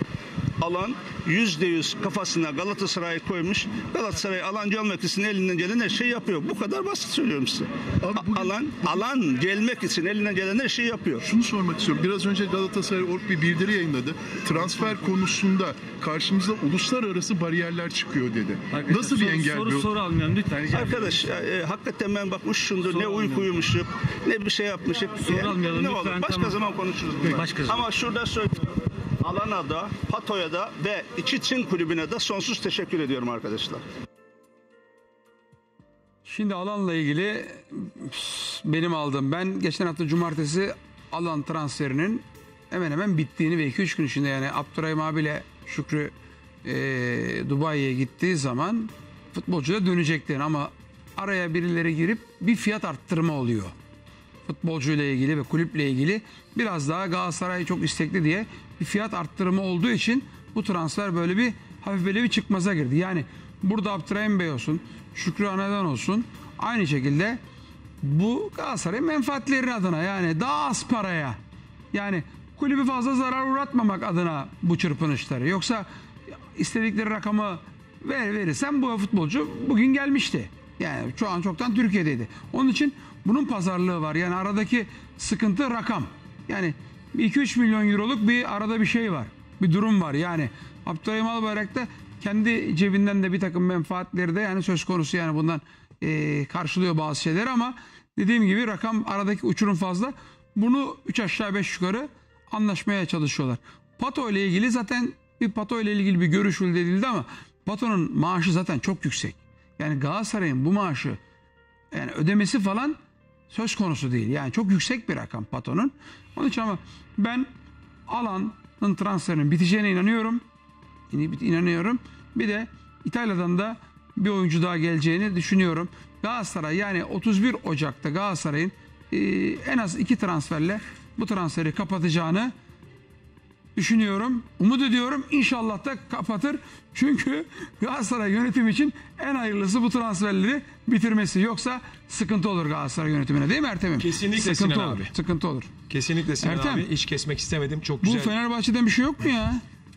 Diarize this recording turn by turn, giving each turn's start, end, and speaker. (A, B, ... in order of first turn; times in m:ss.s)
0:00.6-0:11.2 A
0:08.0-0:09.0 B
0:11.2-0:19.9 B
0:18.7-0:21.3 C
0:20.7-0:33.8 A
0:22.8-0:23.6 C
0:25.2-0:26.6 C
0:27.2-0:27.9 C
0:36.2-0:46.1 D
0:46.6-0:53.7 D
0:54.4-1:07.4 D
1:08.0-1:11.4 D
1:11.9-1:15.9 D
1:16.5-1:51.2 D
1:51.9-1:53.0 D
1:53.5-1:57.5 D
1:58.1-2:00.4 D
2:01.1-2:12.5 D
2:13.8-2:25.7 D
2:24.0-2:25.1 E
2:25.9-2:28.3 E
2:26.4-2:26.8 D
2:28.0-2:29.6 D